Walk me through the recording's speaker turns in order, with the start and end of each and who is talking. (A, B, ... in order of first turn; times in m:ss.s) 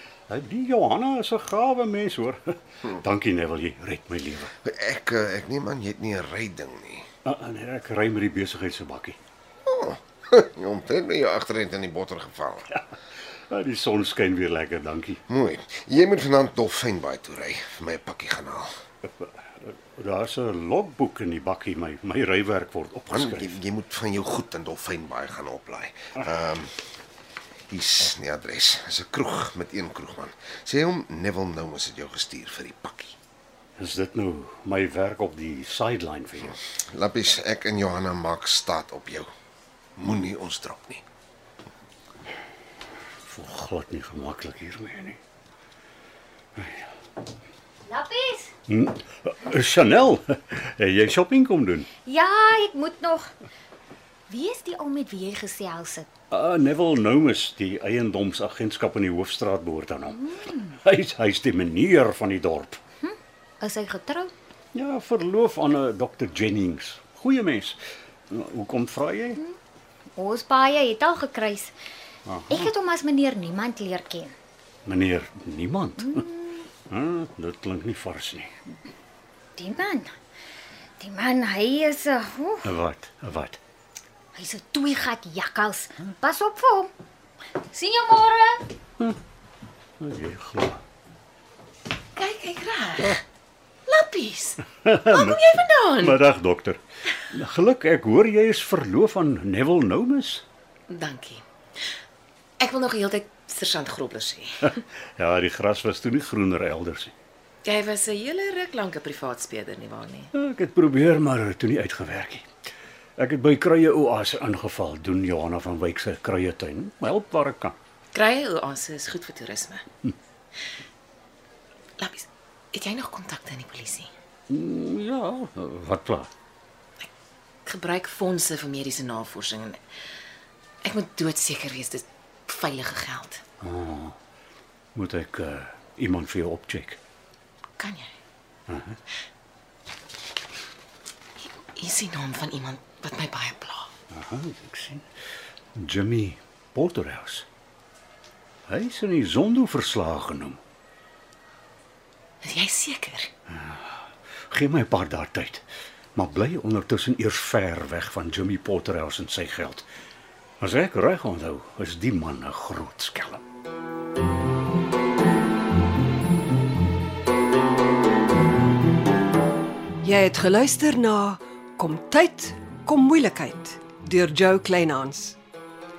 0:00.3-0:04.5 A
0:04.6-0:07.1 B
0:07.3-0:09.2 A
0:09.7-0:12.7 B
0:13.5-0:15.2 A
0:15.3-0:18.7 B
0:19.2-0:23.6 A
0:23.1-0:26.7 B
0:27.7-0:33.2 B
0:33.8-0:36.6 A
0:36.9-0:39.3 B
0:40.0-0:41.0 B
0:43.3-0:45.2 A
0:46.6-0:46.8 A
0:47.9-0:48.5 C
0:48.7-0:51.9 A
0:52.0-0:53.3 C
0:54.3-0:56.1 C
0:56.3-1:02.8 A
1:03.0-1:04.3 C
1:04.7-1:07.8 A
1:08.3-1:09.4 A
1:10.2-1:11.8 C
1:12.3-1:12.7 A
1:12.5-1:14.3 C
1:14.9-1:16.3 A
1:16.9-1:18.5 A
1:19.6-1:20.1 C
1:21.0-1:22.7 C
1:22.6-1:23.6 A
1:24.4-1:26.9 C
1:27.7-1:28.7 C
1:30.0-1:30.8 A
1:32.2-1:33.2 D
1:33.9-1:34.6 D
1:34.7-1:36.8 A
1:35.1-1:36.2 D
1:37.3-1:40.4 A
1:40.9-1:41.4 D
1:42.6-1:44.6 D
1:44.8-1:47.1 A
1:47.6-1:50.3 D
1:50.3-1:52.5 A
1:53.2-1:57.8 A
1:58.1-1:59.8 D
2:02.0-2:04.1 D
2:04.5-2:06.3 A
2:07.6-2:09.8 D
2:10.8-2:13.4 D
2:13.6-2:14.2 A
2:15.0-2:17.0 A
2:17.8-2:18.1 D
2:18.7-2:19.0 A
2:21.8-2:23.9 D
2:24.1-2:25.1 A
2:25.8-2:27.5 A
2:28.7-2:30.6 A
2:32.4-2:33.3 D
2:33.5-2:35.6 A
2:36.2-2:39.9 A
2:40.6-2:43.4 A
2:50.0-2:55.4 E